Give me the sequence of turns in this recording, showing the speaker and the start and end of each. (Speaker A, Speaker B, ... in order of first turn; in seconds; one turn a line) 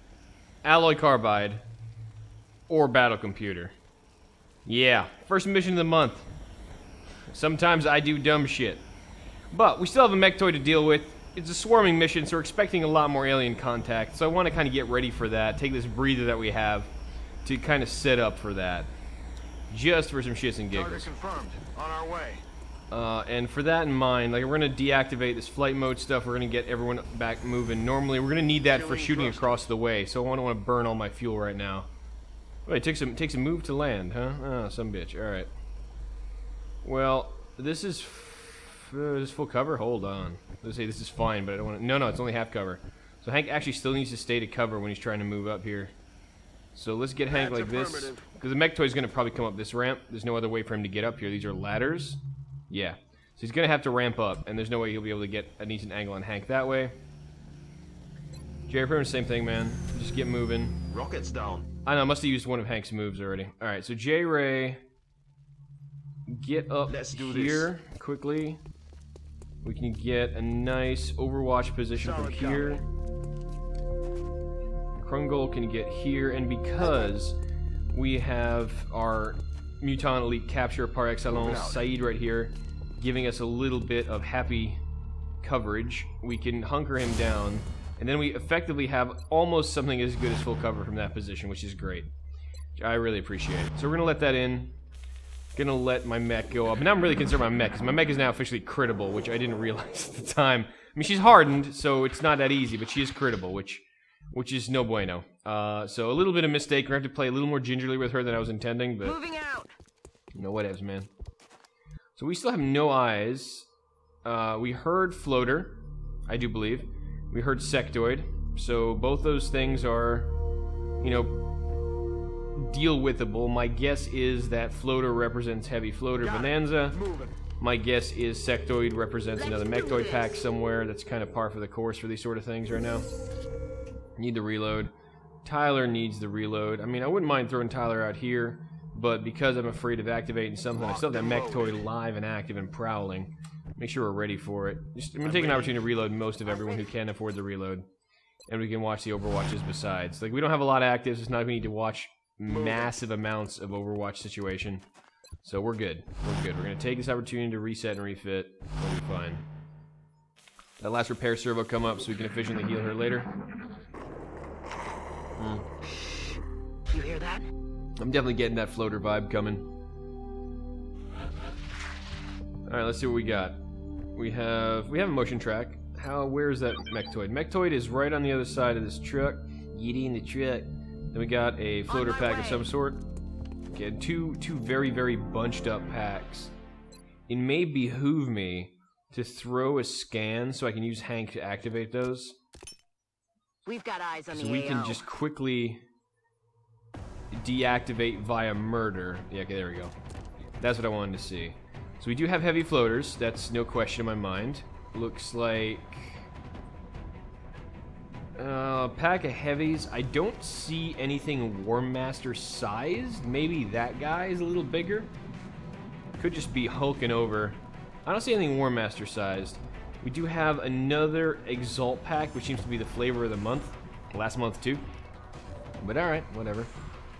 Speaker A: 0.6-1.6
Speaker A: 2.7-3.8
Speaker A: 4.7-6.3
Speaker A: 7.3-8.9
Speaker A: 9.5-16.9
Speaker A: 17.4-18.9
Speaker A: 19.7-21.1
Speaker B: 20.7-22.4
Speaker A: 22.9-31.9
Speaker B: 28.7-29.6
Speaker A: 32.7-35.5
Speaker A: 36.8-45.9
Speaker A: 46.8-57.0
Speaker B: 47.2-48.3
Speaker A: 58.7-60.8
Speaker B: 60.9-61.7
Speaker A: 61.9-64.8
Speaker A: 66.3-68.6
Speaker B: 66.9-67.7
Speaker A: 69.6-72.9
Speaker B: 72.0-72.9
Speaker A: 75.0-77.4
Speaker A: 77.9-84.8
Speaker B: 81.3-81.8
Speaker A: 85.4-92.1
Speaker A: 92.8-94.8
Speaker A: 95.5-109.2
Speaker C: 109.0-109.7
Speaker A: 110.4-111.1
Speaker A: 112.2-113.7
Speaker A: 114.2-120.3
Speaker A: 121.0-121.4
Speaker A: 122.5-127.0
Speaker B: 126.2-127.3
Speaker A: 127.6-133.1
Speaker C: 129.4-130.4
Speaker A: 134.2-134.9
Speaker A: 135.4-147.9
Speaker B: 140.8-141.9
Speaker B: 145.2-145.8
Speaker C: 146.4-146.9
Speaker A: 148.5-154.8
Speaker B: 152.5-153.0
Speaker A: 155.4-159.4
Speaker A: 160.8-163.3
Speaker A: 165.4-165.7
Speaker C: 166.9-167.5
Speaker A: 168.0-169.7
Speaker A: 172.7-173.6
Speaker A: 174.2-183.0
Speaker C: 181.9-182.7
Speaker A: 183.7-186.5
Speaker A: 187.3-192.4
Speaker C: 193.7-195.1
Speaker A: 194.3-195.8
Speaker A: 197.3-199.9
Speaker A: 200.6-206.2
Speaker A: 208.4-215.1
Speaker A: 216.2-224.9
Speaker A: 225.8-226.7